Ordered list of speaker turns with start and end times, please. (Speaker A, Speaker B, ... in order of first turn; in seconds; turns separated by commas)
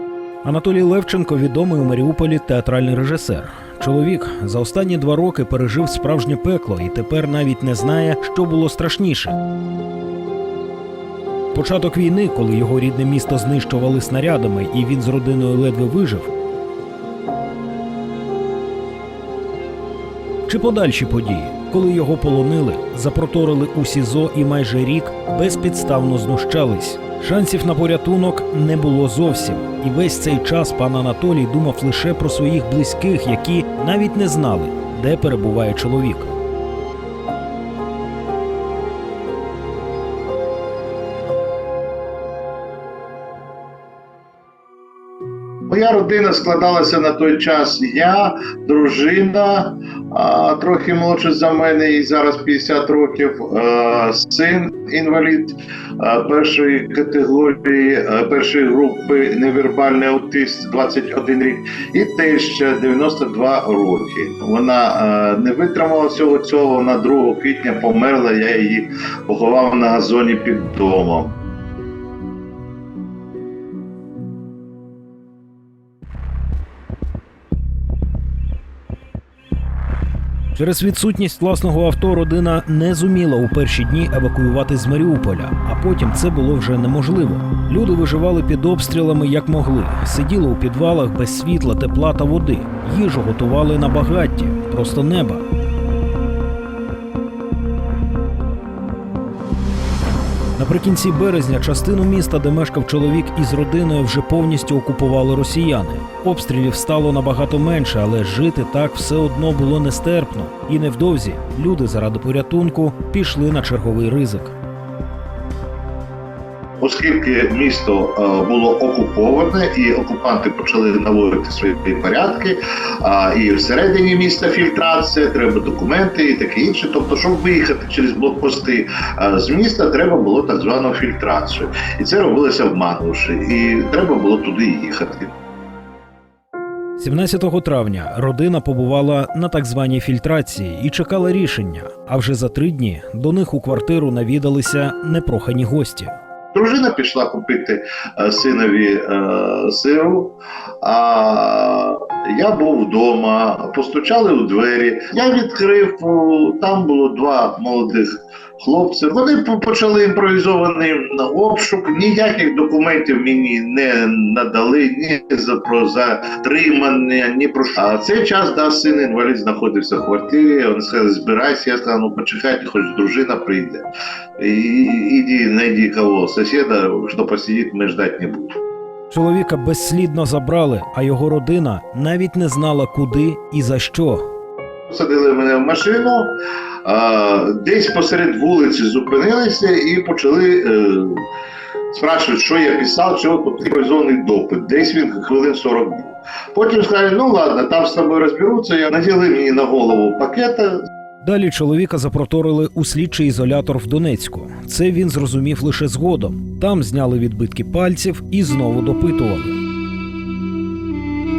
Speaker A: 0.4-9.4, Speaker A: 11.5-16.3, Speaker A: 20.5-36.3, Speaker B: 45.7-71.3, Speaker A: 80.5-95.4, Speaker A: 100.6-114.5, Speaker B: 116.8-135.3, Speaker A: 137.0-146.1, Speaker B: 146.5-173.8, Speaker B: 174.4-178.6, Speaker A: 179.1-184.3, Speaker B: 184.9-191.2, Speaker B: 191.9-200.8, Speaker A: 201.2-209.6